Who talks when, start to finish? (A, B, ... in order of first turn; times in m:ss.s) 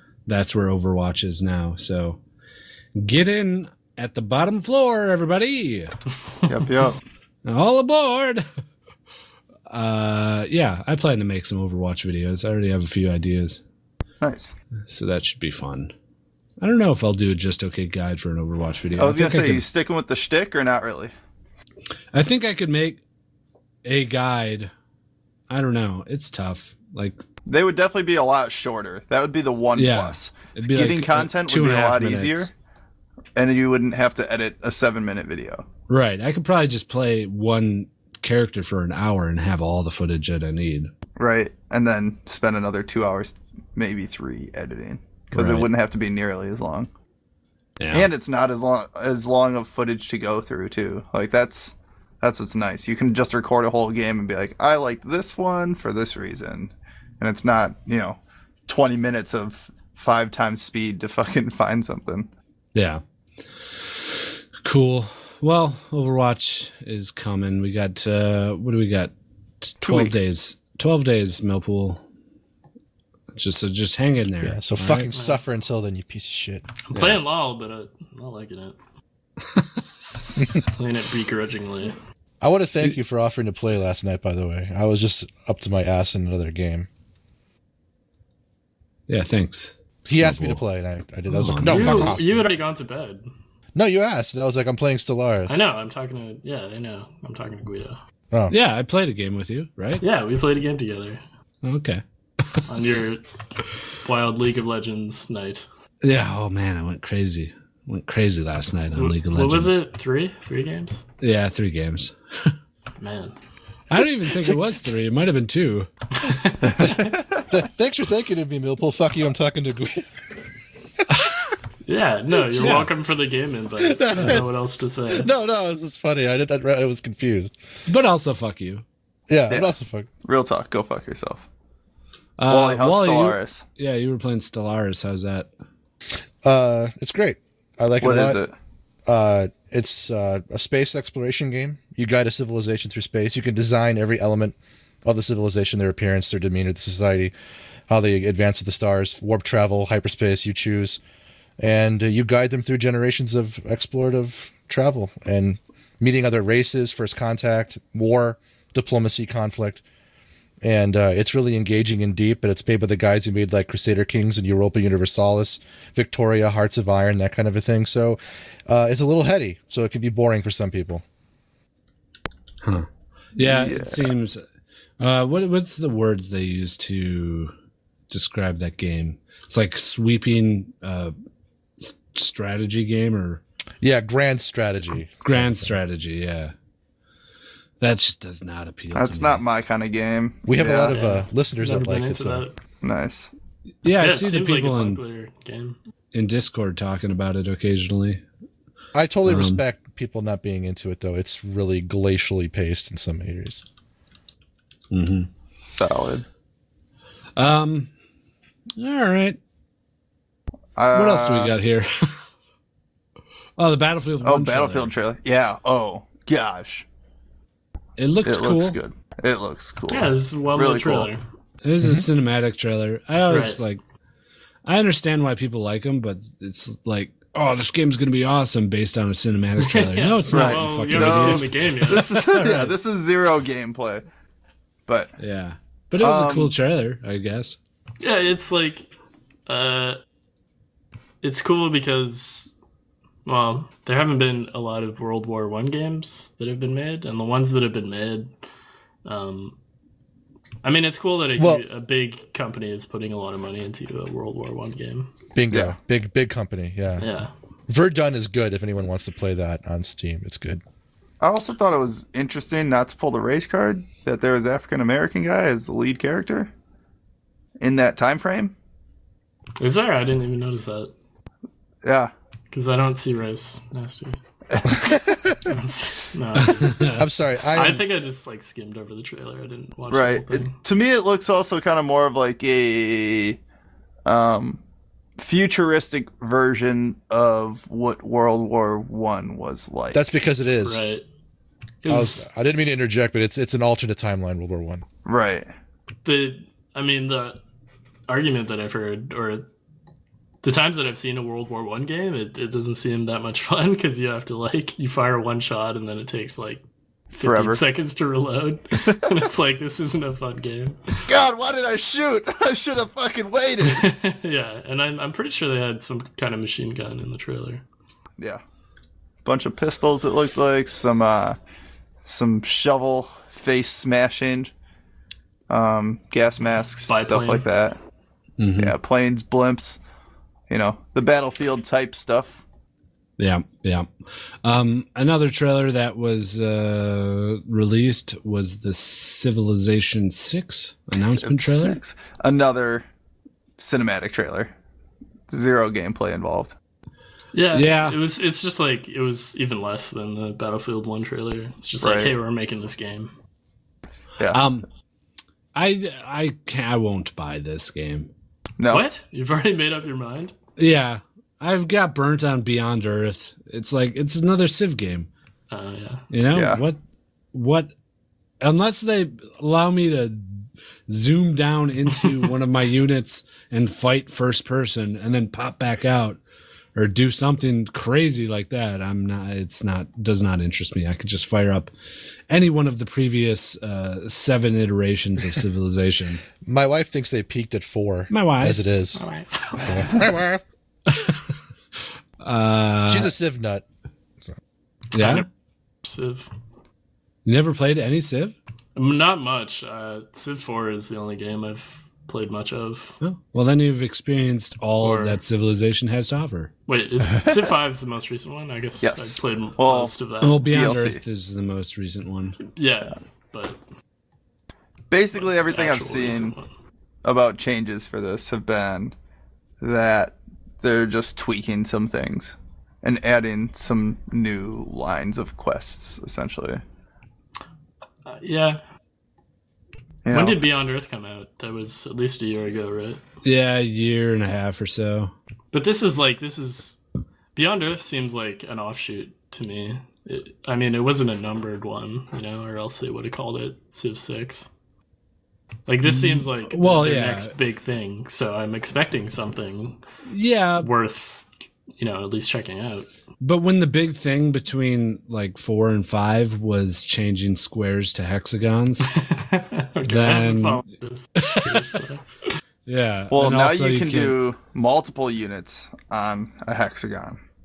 0:00.2-0:02.2 A
0:03.0-0:05.9 A
0:06.5-0:07.0 B
0:07.4-0:08.4 A
0:09.7-0:13.6 A
0:14.2-0:14.5 B
0:14.9-0:15.9 A
0:16.6-0:19.6 A
0:19.0-0:21.1 B
0:22.1-0:23.0 A
0:23.8-0:24.7 A
0:25.5-0:27.2 A
0:27.5-0:32.5 B
0:29.7-0:32.5 A
0:33.4-0:35.6 B
0:35.9-0:40.9 A
0:41.2-0:46.9 B
0:45.3-0:45.7 A
0:47.8-0:48.1 A
0:47.9-1:02.3 B
1:02.7-1:03.0 A
1:04.6-1:12.0 A
1:09.8-1:10.2 B
1:13.3-1:15.1 A
1:14.4-1:16.6 C
1:15.1-1:15.4 D
1:16.9-1:18.8 D
1:16.9-1:17.2 A
1:20.5-1:22.0 D
1:22.4-1:26.9 C
1:29.1-1:30.6 A
1:30.0-1:32.4 C
1:31.3-1:32.2 A
1:31.6-1:33.2 D
1:33.7-1:35.7 C
1:35.5-1:38.0 D
1:38.5-1:40.0 A
1:40.0-1:41.2 D
1:41.6-1:42.7 A
1:42.7-1:43.2 D
1:44.0-1:45.6 D
1:46.0-1:49.8 A
1:49.0-1:51.0 D
1:51.2-1:52.5 A
1:53.0-1:53.3 D
1:53.9-1:55.9 A
1:56.2-1:57.1 D
1:56.8-2:00.3 C
2:01.8-2:05.3 D
2:02.6-2:02.9 A
2:03.8-2:04.6 C
2:05.1-2:07.5 C
2:07.9-2:08.8 A
2:09.3-2:10.1 C
2:10.2-2:11.4 B
2:12.4-2:15.5 A
2:12.5-2:13.6 B
2:16.4-2:18.4 C
2:18.0-2:18.5 B
2:19.0-2:27.3 C
2:27.9-2:31.0 C
2:31.6-2:39.8 C
2:40.6-2:51.0 C
2:52.6-2:54.4 A
2:53.4-2:54.1 B
2:55.0-2:57.5 A
2:58.1-3:01.1 A
3:01.8-3:03.4 A
3:03.8-3:05.7 C
3:05.2-3:06.5 A
3:07.8-3:09.4 A
3:08.9-3:11.0 B
3:10.4-3:12.4 C
3:10.6-3:12.5 D
3:12.8-3:13.3 B
3:13.8-3:15.0 A
3:14.0-3:15.8 D
3:16.1-3:18.2 A
3:18.9-3:23.6 C
3:19.2-3:19.6 A
3:24.9-3:25.3 A
3:25.7-3:26.2 B
3:27.4-3:27.9 A
3:28.8-3:29.4 A
3:30.8-3:31.5 B
3:30.9-3:32.2 A
3:33.6-3:34.9 A
3:34.2-3:36.8 B
3:38.0-3:38.8 A
3:38.2-3:41.1 B
3:39.9-3:41.2 D
3:41.6-3:43.8 A
3:43.3-3:43.6 D
3:44.6-3:52.7 A
3:49.6-3:52.7 D
3:50.3-3:54.0 B
3:54.9-3:55.1 B
3:55.2-3:57.6 A
3:56.0-3:56.5 B
3:58.0-3:58.8 D
3:59.5-4:00.0 D
4:01.2-4:02.5 D
4:03.2-4:08.3 D
4:09.0-4:09.5 D
4:10.6-4:15.1 D
4:11.4-4:11.6 C
4:15.3-4:17.1 C
4:17.0-4:17.3 D
4:17.7-4:20.6 C
4:21.2-4:26.5 B
4:27.6-4:28.5 B
4:29.6-4:30.9 D
4:31.8-4:32.1 B
4:32.5-4:34.2 D
4:34.7-4:35.4 C
4:35.4-4:37.0 D
4:36.4-4:37.0 A
4:36.9-4:37.8 C
4:37.5-4:40.5 D
4:39.9-4:43.4 B
4:44.0-4:44.6 B
4:45.2-4:50.1 B
4:49.9-4:50.8 C
4:50.6-4:51.0 D
4:51.8-4:52.3 D
4:51.9-4:54.8 C
4:55.0-4:55.5 B
4:56.0-4:57.4 D
4:58.1-4:59.4 D
5:00.4-5:06.6 D
5:07.1-5:07.6 B
5:07.2-5:11.1 D
5:11.1-5:13.9 B
5:13.6-5:17.6 D
5:19.2-5:21.4 B
5:22.0-5:24.5 B
5:25.5-5:27.8 B
5:26.9-5:27.4 D
5:28.4-5:28.7 A
5:28.6-5:29.8 B
5:30.5-5:32.4 B
5:33.2-5:33.9 A
5:34.4-5:41.8 A
5:41.0-5:42.8 B
5:43.6-5:44.5 B
5:45.3-5:46.5 B
5:47.3-5:53.1 D
5:47.5-5:48.0 A
5:51.8-5:52.1 B
5:54.3-5:54.6 A
5:55.5-5:58.1 A
5:58.6-5:58.8 B
5:58.7-6:00.3 D
6:00.6-6:05.1 A
6:05.5-6:06.0 D
6:06.1-6:06.8 A
6:06.3-6:06.6 B
6:07.3-6:07.7 A
6:08.4-6:16.2 A
6:16.7-6:21.7 A
6:22.3-6:26.2 A
6:26.4-6:29.0 C
6:28.1-6:28.6 A
6:29.0-6:30.1 D
6:29.6-6:30.4 C
6:30.9-6:31.2 A
6:32.2-6:33.1 A
6:32.9-6:33.6 C
6:34.9-6:35.2 A
6:35.0-6:35.2 D
6:35.8-6:36.3 D
6:37.2-6:38.3 A
6:38.8-6:43.0 D
6:43.0-6:46.5 A
6:44.8-6:45.2 D
6:46.7-6:50.4 D
6:48.8-6:51.0 B
6:50.2-6:52.4 A
6:52.6-6:53.6 D
6:54.9-6:56.3 B
6:55.1-6:56.5 D
6:57.0-6:58.9 B
6:59.6-7:06.6 B
7:08.0-7:08.6 D
7:10.0-7:10.4 B
7:10.1-7:13.0 D
7:13.2-7:15.1 A
7:15.5-7:16.8 D
7:17.4-7:24.5 D
7:25.7-7:29.8 D
7:25.8-7:27.3 A
7:30.1-7:30.7 A
7:30.6-7:32.9 D
7:33.2-7:38.9 A
7:38.9-7:42.3 D
7:39.8-7:40.6 A
7:41.2-7:41.7 A
7:42.6-7:44.2 A
7:43.1-7:47.2 B